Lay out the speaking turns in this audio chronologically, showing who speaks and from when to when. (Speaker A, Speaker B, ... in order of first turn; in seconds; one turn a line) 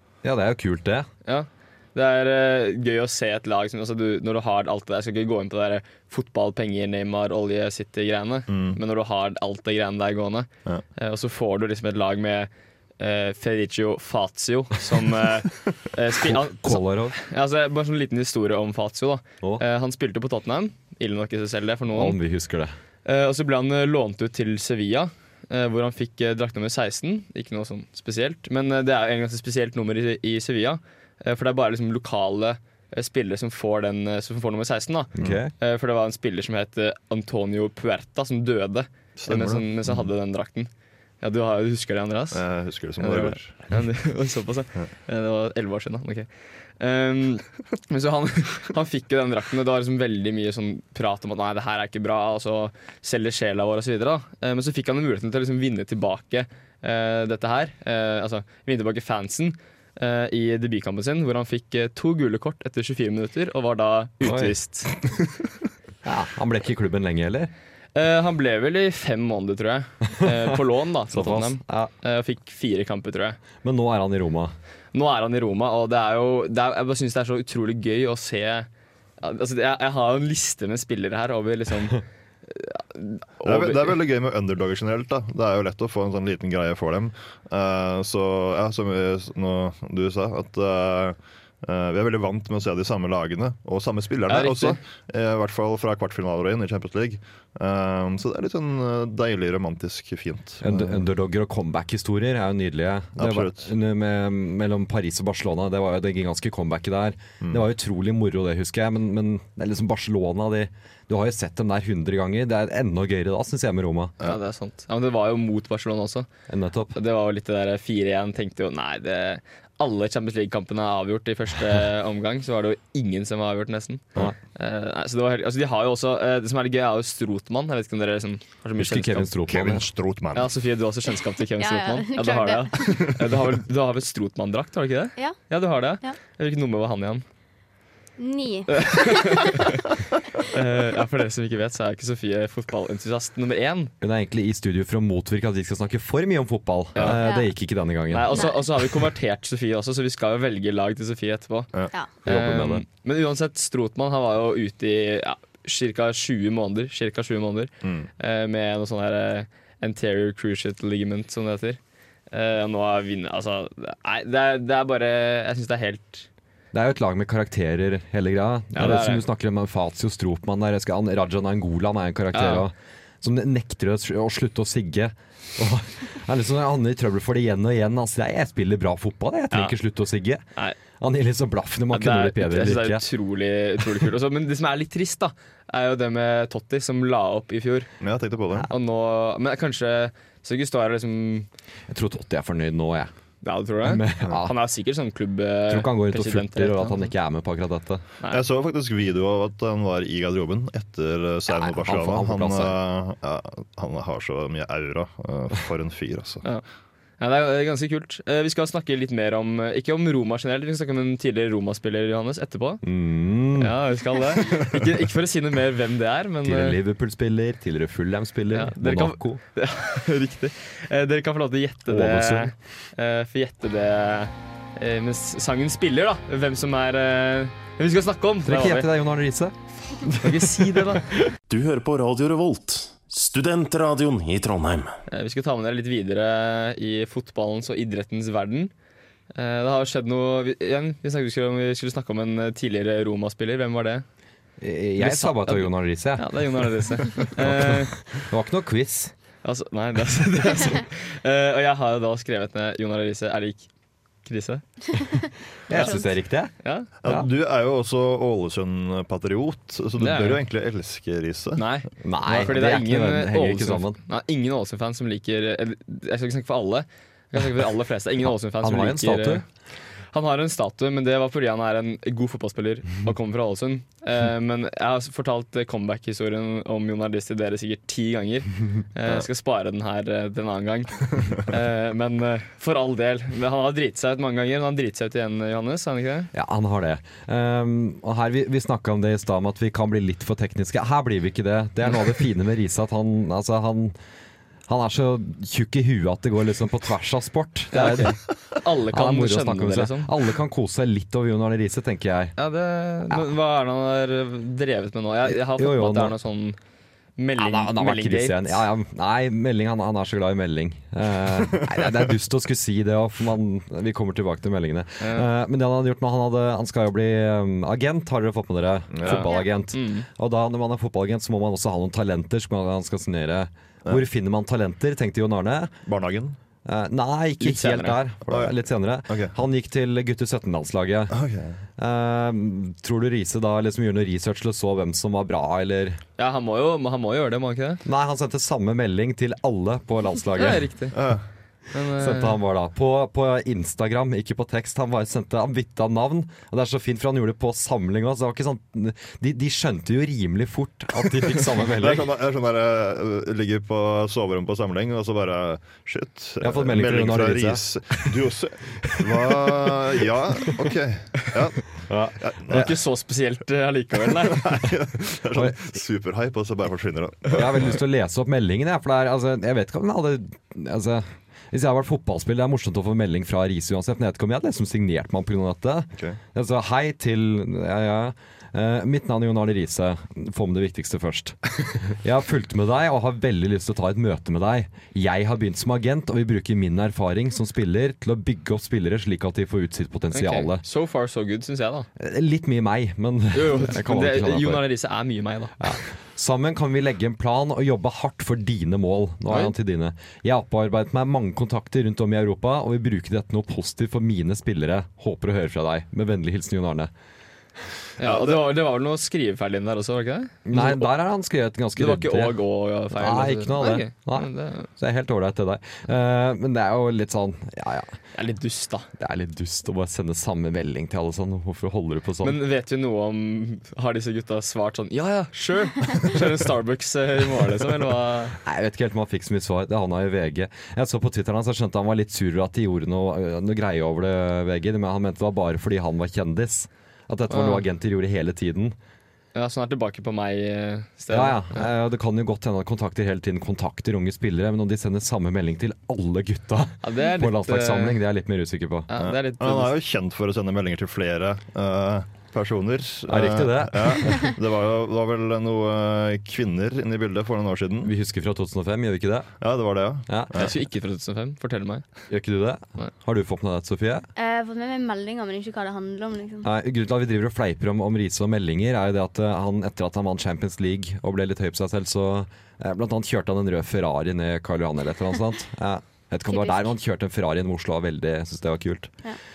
Speaker A: 0.2-1.1
Speaker B: 1.2-22.2
Speaker C: 8.5-8.8
Speaker A: 16.2-17.2
Speaker A: 21.9-22.7
Speaker B: 23.1-40.7
Speaker A: 35.2-35.5
Speaker C: 39.2-40.0
Speaker B: 41.2-42.4
Speaker C: 42.3-43.5
Speaker B: 43.0-46.3
Speaker B: 46.8-65.0
Speaker A: 64.2-64.5
Speaker A: 66.0-67.5
Speaker B: 68.0-73.4
Speaker A: 71.1-71.9
Speaker A: 73.6-74.5
Speaker B: 74.9-78.7
Speaker B: 79.2-83.9
Speaker C: 83.4-101.0
Speaker B: 94.3-94.8
Speaker A: 100.6-114.2
Speaker C: 103.2-103.7
Speaker B: 114.2-116.3
Speaker A: 116.5-117.0
Speaker B: 116.9-129.3
Speaker A: 128.8-129.9
Speaker C: 129.5-130.5
Speaker B: 130.3-137.2
Speaker D: 131.6-133.1
Speaker D: 138.2-139.6
Speaker B: 138.7-139.8
Speaker B: 140.4-143.9
Speaker A: 144.0-148.4
Speaker B: 146.9-147.2
Speaker D: 147.2-147.5
Speaker B: 148.1-151.7
Speaker D: 148.3-148.6
Speaker B: 152.2-166.3
Speaker A: 152.3-152.8
Speaker C: 157.8-158.1
Speaker A: 166.7-180.4
Speaker B: 168.7-169.2
Speaker B: 172.3-172.7
Speaker B: 179.5-179.8
Speaker A: 181.0-183.0
Speaker B: 181.9-187.9
Speaker C: 188.0-188.7
Speaker B: 188.7-191.5
Speaker A: 191.9-193.1
Speaker B: 193.4-197.1
Speaker A: 193.8-194.6
Speaker A: 195.7-198.0
Speaker C: 198.3-206.5
Speaker A: 201.5-202.8
Speaker B: 207.2-212.8
Speaker A: 212.8-213.8
Speaker B: 213.6-216.8
Speaker A: 216.4-219.4
Speaker B: 218.5-228.9
Speaker A: 221.9-222.5
Speaker A: 228.4-230.3
Speaker B: 230.2-231.2
Speaker E: 231.5-235.0
Speaker B: 235.1-238.7
Speaker B: 239.3-244.1
Speaker A: 244.6-246.4
Speaker B: 245.0-247.9
Speaker A: 247.4-249.1
Speaker B: 249.4-253.7
Speaker B: 254.2-254.8
Speaker A: 255.7-257.3
Speaker B: 255.7-256.0
Speaker B: 256.6-256.9
Speaker C: 257.0-261.7
Speaker B: 260.0-260.4
Speaker B: 261.6-269.4
Speaker A: 262.0-264.0
Speaker A: 268.6-269.4
Speaker B: 270.1-286.3
Speaker A: 286.3-294.0
Speaker A: 294.7-298.2
Speaker B: 297.7-300.1
Speaker A: 298.9-302.4
Speaker B: 302.4-306.6
Speaker A: 305.3-306.2
Speaker B: 307.2-308.6
Speaker A: 307.4-325.7
Speaker B: 315.0-315.3
Speaker C: 318.9-319.3
Speaker B: 319.1-320.1
Speaker C: 325.9-326.4
Speaker A: 326.6-331.2
Speaker B: 327.4-328.0
Speaker C: 328.3-328.6
Speaker C: 331.1-331.6
Speaker A: 331.8-336.0
Speaker B: 336.2-337.8
Speaker A: 337.9-340.7
Speaker B: 340.4-341.0
Speaker C: 340.9-341.2
Speaker B: 341.7-342.4
Speaker A: 342.0-352.1
Speaker C: 351.7-362.7
Speaker A: 356.4-357.9
Speaker A: 359.1-359.7
Speaker A: 361.9-362.7
Speaker B: 362.5-364.6
Speaker C: 364.2-367.8
Speaker A: 367.3-390.6
Speaker B: 390.1-391.9
Speaker A: 392.0-394.6
Speaker B: 393.3-395.8
Speaker A: 395.6-406.9
Speaker B: 408.0-410.9
Speaker C: 408.0-408.4
Speaker A: 410.5-412.4
Speaker B: 411.8-414.7
Speaker A: 412.9-417.9
Speaker B: 418.1-418.9
Speaker A: 419.0-422.4
Speaker B: 422.2-428.4
Speaker A: 428.4-438.8
Speaker B: 437.3-437.6
Speaker B: 439.3-441.7
Speaker A: 441.1-448.9
Speaker B: 446.8-448.0
Speaker B: 448.9-449.7
Speaker C: 449.0-457.9
Speaker A: 453.1-454.3
Speaker A: 457.8-459.3
Speaker C: 459.4-460.5
Speaker B: 460.3-461.9
Speaker A: 462.1-464.1
Speaker D: 464.2-466.5
Speaker A: 466.4-478.9
Speaker D: 476.3-476.7